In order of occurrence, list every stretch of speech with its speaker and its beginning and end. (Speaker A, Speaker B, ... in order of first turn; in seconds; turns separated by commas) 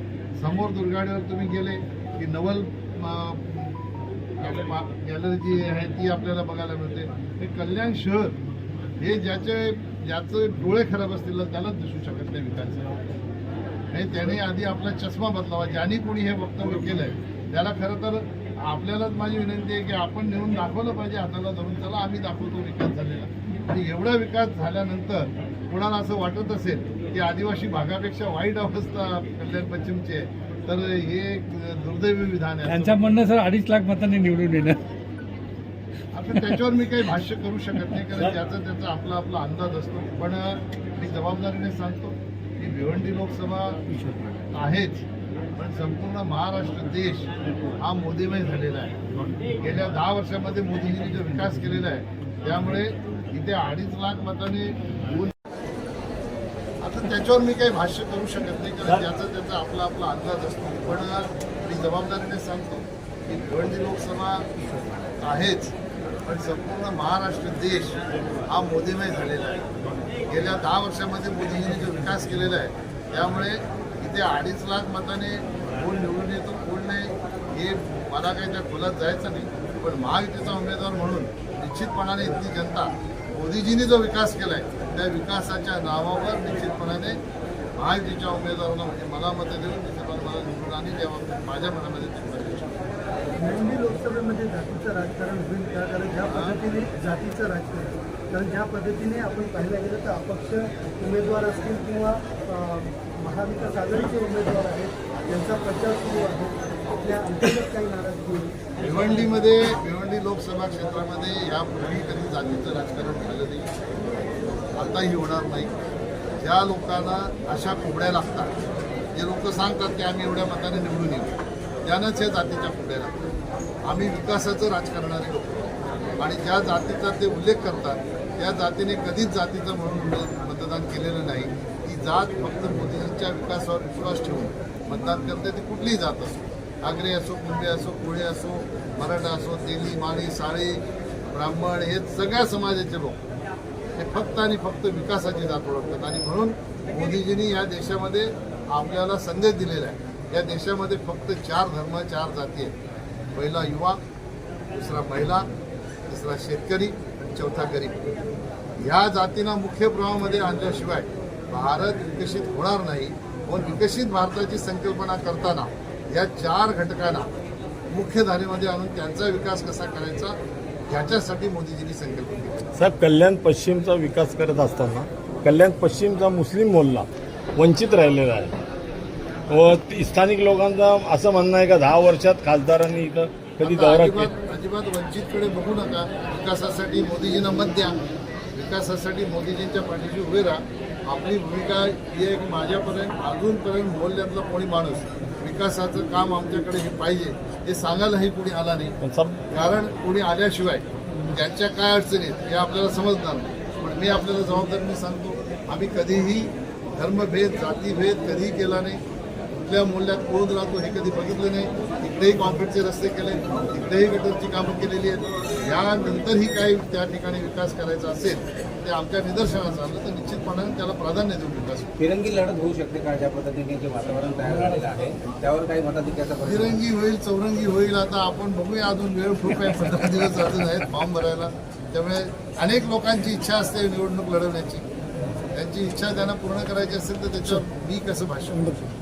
Speaker A: 0.4-3.8, Speaker A: 4.4-8.4, Speaker A: 9.0-13.0, Speaker A: 13.9-33.1, Speaker B: 32.6-34.8, Speaker A: 36.1-43.9, Speaker A: 44.5-45.0, Speaker A: 45.5-49.0, Speaker A: 49.6-55.3, Speaker A: 56.8-64.5, Speaker A: 65.2-65.7, Speaker A: 66.2-69.7, Speaker A: 70.3-87.2, Speaker A: 87.8-92.8, Speaker C: 93.3-108.5, Speaker A: 96.3-96.6, Speaker A: 108.8-113.7, Speaker A: 114.8-115.8, Speaker A: 116.4-118.5, Speaker A: 119.2-121.3, Speaker A: 121.8-123.2, Speaker A: 123.8-125.7, Speaker A: 126.2-143.2, Speaker A: 144.0-152.7, Speaker A: 153.3-154.0, Speaker A: 154.7-155.5, Speaker A: 156.1-158.0, Speaker A: 158.8-167.3, Speaker A: 167.9-170.4, Speaker A: 170.9-172.7, Speaker D: 172.8-178.5, Speaker D: 179.5-184.3, Speaker A: 183.6-188.0, Speaker A: 188.5-198.9, Speaker D: 199.0-199.4, Speaker A: 199.5-209.0, Speaker A: 209.6-221.9, Speaker E: 222.0-226.8, Speaker A: 226.4-234.8, Speaker A: 235.5-238.8